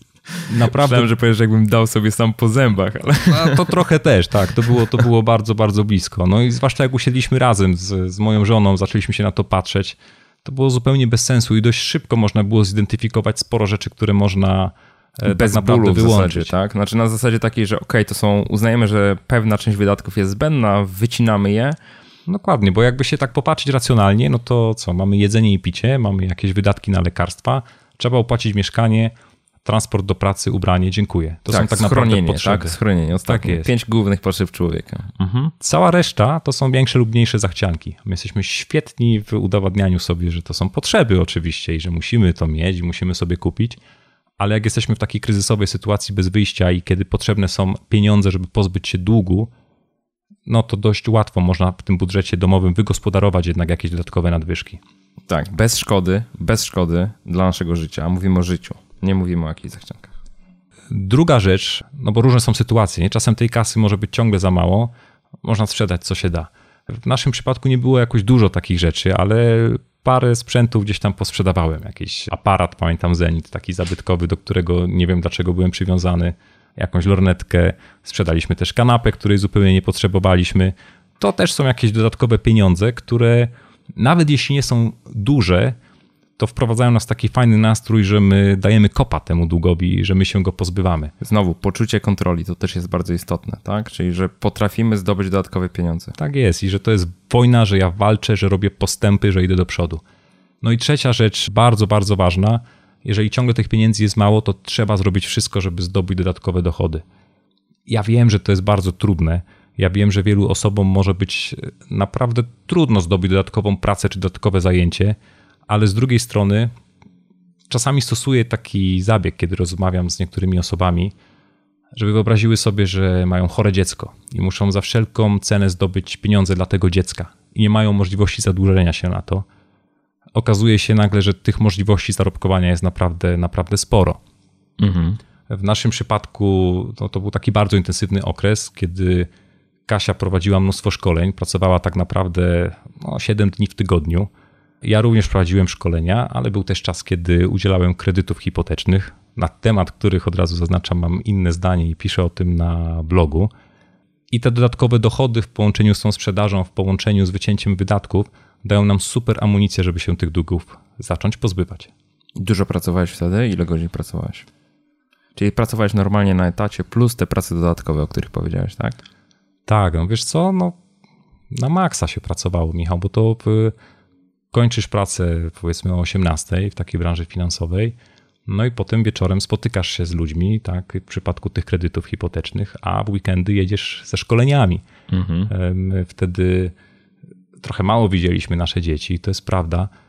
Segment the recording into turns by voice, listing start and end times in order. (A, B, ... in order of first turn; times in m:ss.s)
0:00.5-0:01.1 A
0:00.7-0:03.7 B
0:03.3-0:16.5 A
0:15.2-0:21.8 B
0:22.3-0:29.1 A
0:29.6-0:32.7 A
0:31.5-0:35.5 B
0:33.2-0:33.7 A
0:35.6-0:43.8 A
0:44.4-0:49.5 A
0:50.4-0:54.8 A
0:55.3-1:00.1 B
1:00.9-1:25.8 A
1:26.4-1:31.1 A
1:31.2-1:36.2 B
1:36.2-1:40.0 A
1:40.6-1:47.0 A
1:47.9-1:55.2 A
1:55.7-1:56.7 A
1:57.7-2:01.1 A
2:01.9-2:09.4 A
2:10.3-2:14.2 A
2:14.8-2:15.2 B
2:15.5-2:19.3 A
2:19.9-2:24.3 A
2:24.8-2:33.5 A
2:34.3-2:41.9 A
2:42.4-2:44.4 B
2:45.3-2:49.0 B
2:49.7-2:50.8 A
2:51.5-2:53.7 A
2:54.5-2:57.9 A
2:58.5-3:04.8 A
3:05.1-3:05.5 B
3:05.5-3:06.7 A
3:07.6-3:09.9 A